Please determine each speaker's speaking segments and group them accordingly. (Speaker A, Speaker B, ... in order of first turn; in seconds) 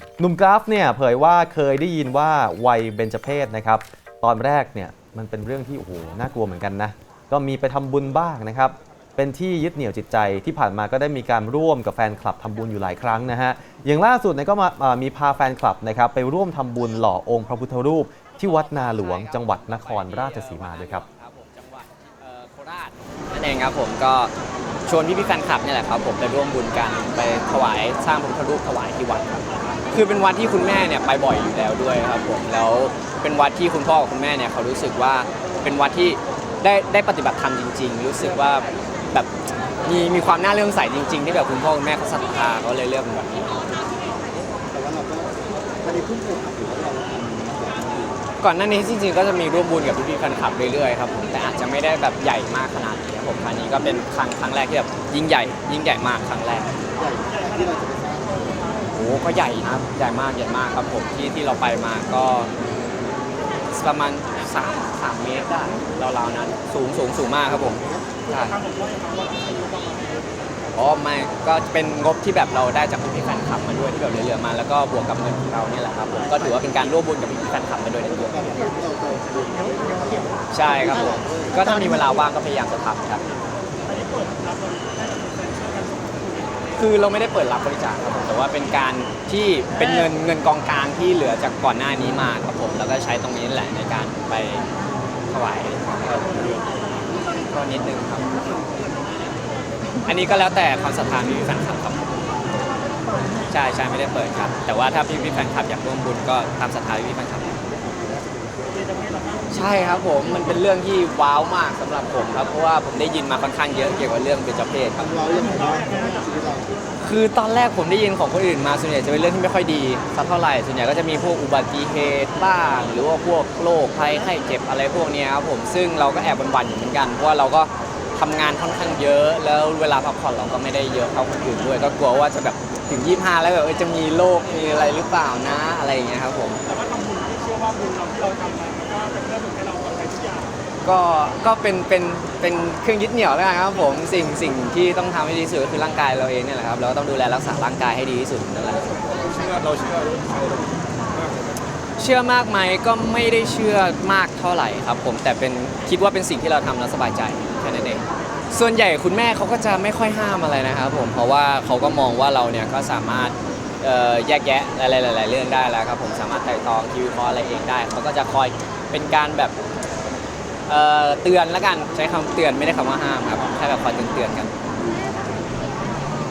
Speaker A: 0.2-21.0
Speaker B: 18.4-24.3, 24.9-39.3, 39.8-43.6, 48.4-56.7, 58.9-62.5, 63.7-68.7, 70.7-78.6, 80.5-83.2, 86.7-94.7, 95.3-98.5, 100.0-102.0, 103.5-107.6, 109.5-115.1, 117.0-136.6, 140.8-149.0, 152.0-169.5, 170.7-174.5
Speaker C: 44.7-48.1, 57.0-58.4, 78.5-80.3, 81.1-81.4, 115.2-116.7
Speaker D: 69.1-69.4, 137.0-140.1